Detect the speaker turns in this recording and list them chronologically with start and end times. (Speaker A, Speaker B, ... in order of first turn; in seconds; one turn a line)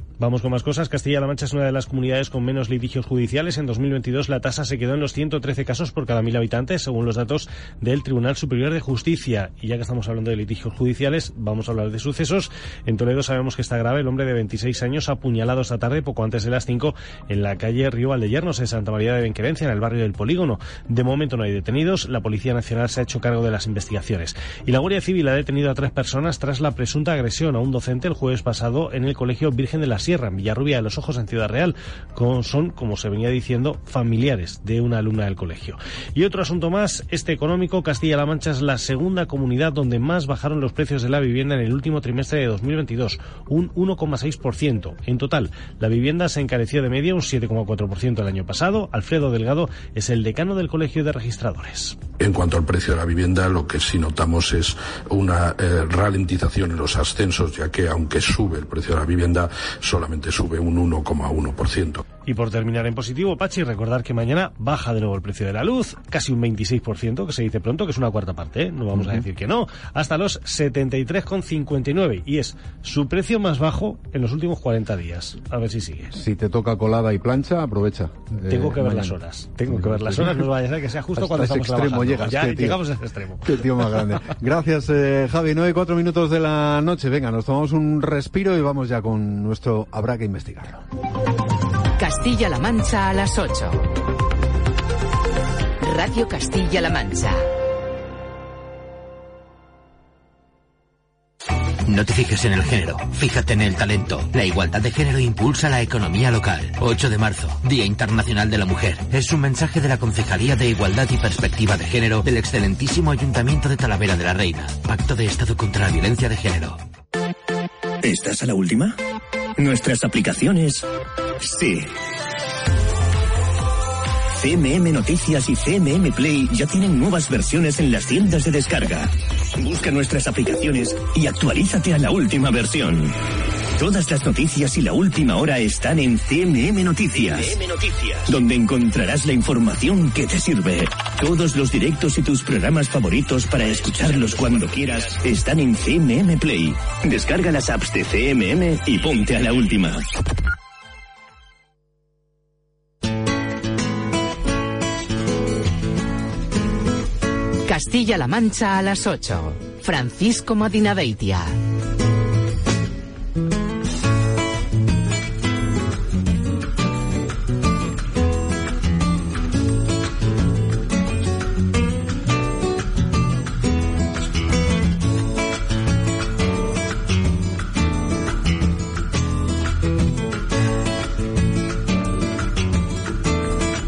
Speaker A: 0.2-52.0
Speaker B: 52.2-62.0
Speaker A: 62.2-76.2
Speaker C: 68.9-69.2
Speaker C: 76.1-80.5
Speaker A: 78.4-84.2
Speaker C: 81.2-82.8
Speaker C: 83.4-90.8
Speaker D: 92.0-93.8
Speaker D: 95.8-97.5
Speaker E: 101.8-116.8
Speaker F: 118.0-119.0
Speaker F: 119.6-120.8
Speaker F: 121.4-121.9
Speaker F: 124.3-133.1
Speaker F: 133.8-137.7
Speaker F: 138.2-150.0
Speaker D: 157.7-161.6